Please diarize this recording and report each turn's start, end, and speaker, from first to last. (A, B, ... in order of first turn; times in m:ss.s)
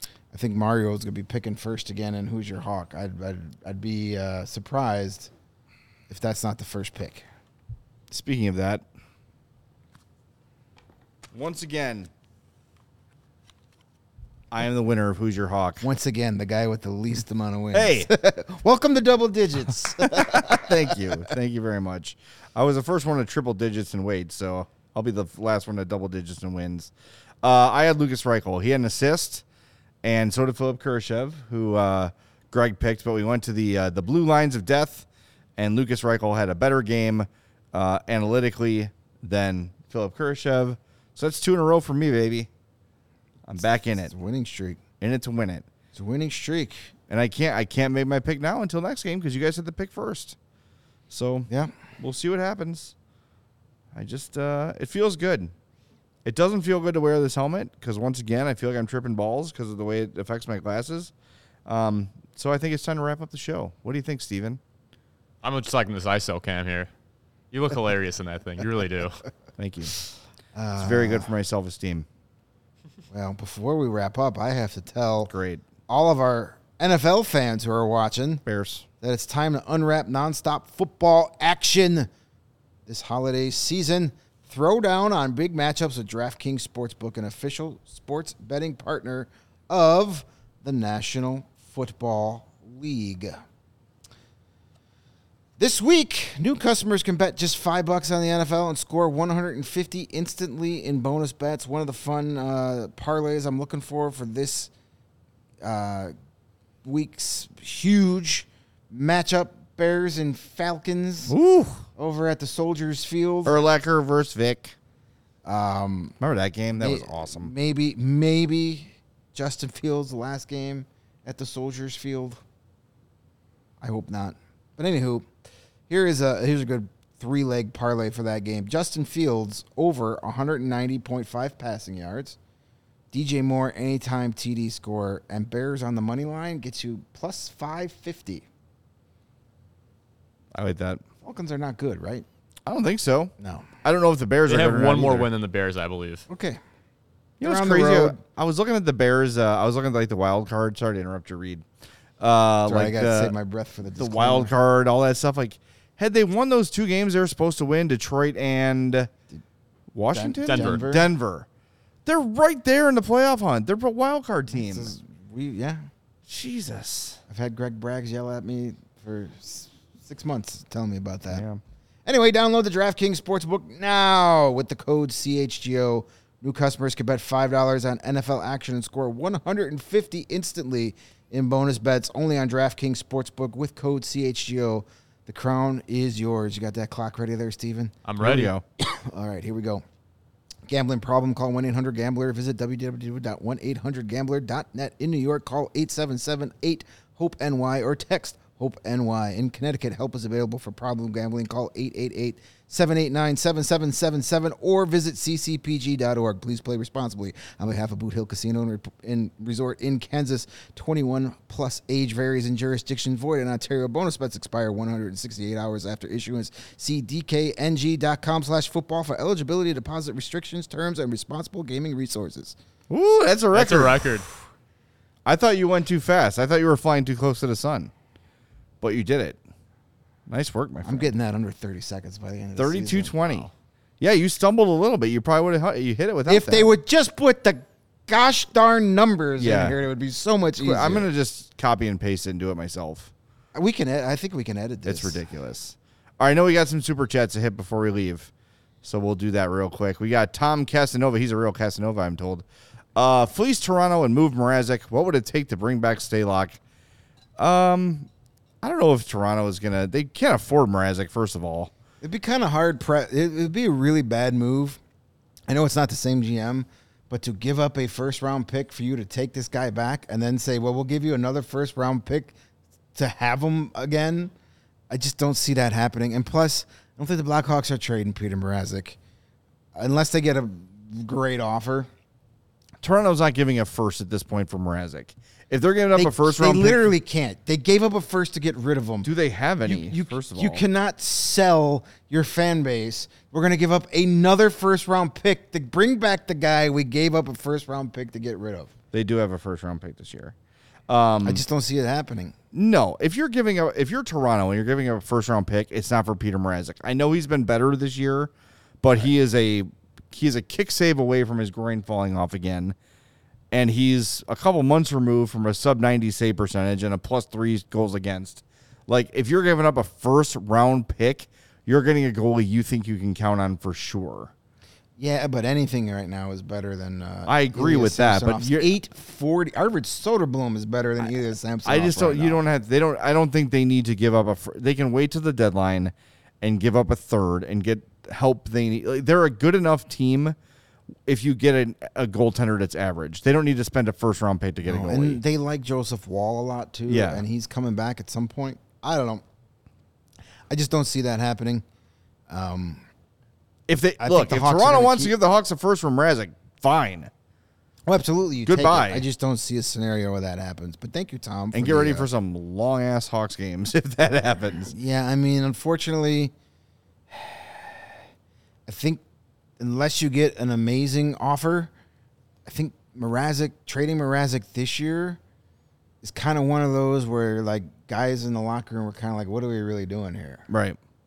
0:00.3-0:05.3 A
0:06.1-0:07.3 A
0:08.1-0:08.8 B
0:11.3-0:12.1 B
0:14.5-0:15.9 B
0:15.8-0:21.2 A
0:17.7-0:18.1 B
0:20.0-0:29.4 B
0:30.0-0:42.5 B
0:43.5-0:44.1 B
0:43.6-0:44.8 A
0:45.0-0:45.7 B
0:45.9-0:47.0 A
0:47.1-0:50.4 B
0:51.1-0:52.9 B
0:53.9-0:55.5 B
0:56.2-1:01.1 B
1:01.6-1:04.6 B
1:05.4-1:06.9 C
1:07.5-1:09.2 C
1:09.6-1:10.0 B
1:10.6-1:11.3 A
1:10.8-1:12.1 B
1:13.1-1:15.3 A
1:15.3-1:15.6 B
1:15.9-1:18.4 A
1:18.5-1:18.9 B
1:19.0-1:22.1 A
1:22.9-1:33.4 A
1:35.6-1:44.7 A
1:45.6-1:46.1 A
1:46.8-1:51.4 A
1:51.3-1:51.9 B
1:52.0-1:53.6 A
1:53.5-1:54.8 B
1:55.4-1:56.2 A
1:56.2-1:57.5 B
1:56.8-2:02.4 A
2:03.8-2:05.3 A
2:05.9-2:12.4 A
2:13.1-2:18.5 A
2:20.5-2:21.0 B
2:21.2-2:22.3 A
2:22.7-2:23.3 B
2:23.4-2:23.7 A
2:23.8-2:25.3 B
2:24.5-2:26.3 C
2:26.3-2:26.6 A
2:27.4-2:31.6 B
2:27.4-2:28.2 A
2:32.2-2:33.3 B
2:32.7-2:34.5 A
2:33.9-2:39.1 B
2:39.9-2:41.5 B
2:40.1-2:41.1 A
2:40.4-2:40.8 C
2:42.0-2:44.9 B
2:44.5-2:45.9 A
2:46.3-2:47.2 B
2:47.3-2:51.4 A
2:51.3-2:51.6 B
2:52.1-3:07.9 A
3:08.0-3:08.5 C
3:08.2-3:08.6 B
3:08.8-3:09.8 A
3:10.7-3:42.6 A
3:42.9-3:44.2 B
3:43.5-3:44.3 C
3:45.2-3:47.9 B
3:48.8-3:49.4 B
3:50.3-3:51.1 B
3:50.8-3:53.5 A
3:52.6-3:56.7 B
3:56.3-4:01.1 A
3:59.4-3:59.8 B
4:00.6-4:03.1 B
4:03.6-4:05.2 A
4:04.9-4:08.3 B
4:08.8-4:12.4 B
4:13.0-4:16.6 B
4:17.4-4:18.1 B
4:18.6-4:21.7 B
4:22.0-4:24.8 A
4:25.5-4:32.4 A
4:33.0-4:34.3 A
4:34.9-4:39.0 A
4:39.8-4:41.9 A
4:42.8-4:46.9 B
4:46.0-4:49.1 A
4:49.0-4:50.6 B
4:49.6-4:58.7 A
4:58.9-5:00.4 B
5:00.9-5:01.4 B
5:01.2-5:02.4 A
5:02.5-5:08.3 B
5:08.8-5:12.8 B
5:13.5-5:24.3 B
5:25.0-5:32.4 A
5:27.3-5:28.7 B
5:31.6-5:40.4 B
5:41.1-5:45.2 B
5:44.6-5:49.2 A
5:46.9-5:47.2 B
5:50.5-5:51.6 A
5:52.3-5:52.8 A
5:53.7-5:57.1 B
5:54.0-5:55.2 A
5:57.9-6:02.1 A
5:58.4-5:59.1 B
6:01.5-6:04.7 B
6:04.7-6:06.3 A
6:07.1-6:08.0 A
6:08.7-6:09.0 A
6:09.6-6:11.7 A
6:12.4-6:15.2 A
6:16.0-6:20.5 A
6:20.5-6:20.8 B